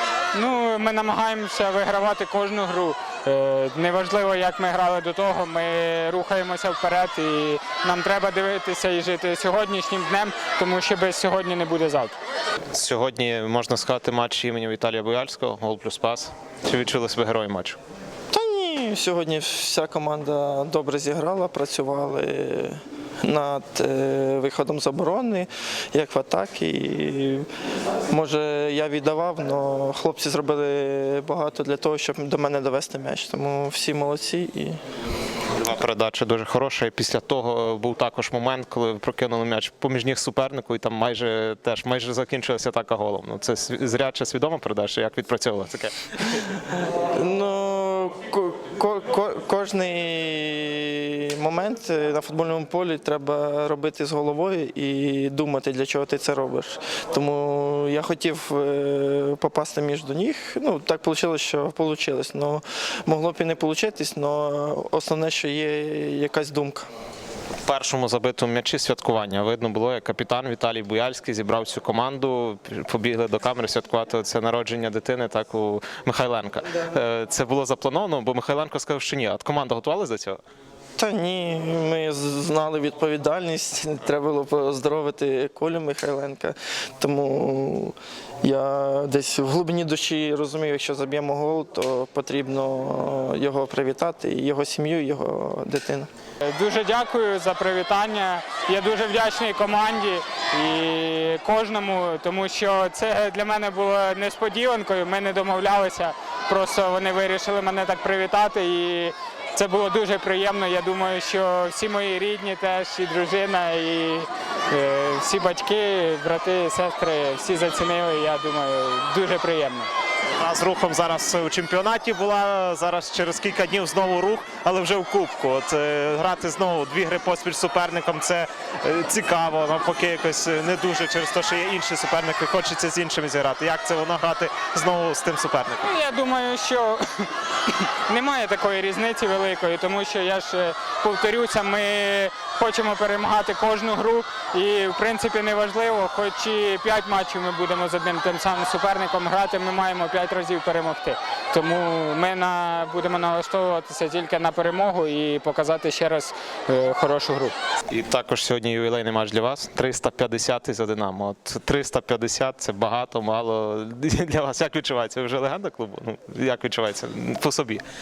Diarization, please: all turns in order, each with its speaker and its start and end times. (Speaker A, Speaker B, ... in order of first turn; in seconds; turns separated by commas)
Speaker A: 0.3-12.1, Speaker B: 12.7-17.8, Speaker C: 18.3-27.5, Speaker C: 28.1-34.8, Speaker B: 35.5-45.9, Speaker C: 47.1-66.9, Speaker B: 67.6-80.4, Speaker C: 81.0-96.1, Speaker A: 96.4-119.9, Speaker B: 120.3-135.9, Speaker A: 135.8-157.5, Speaker B: 157.9-167.8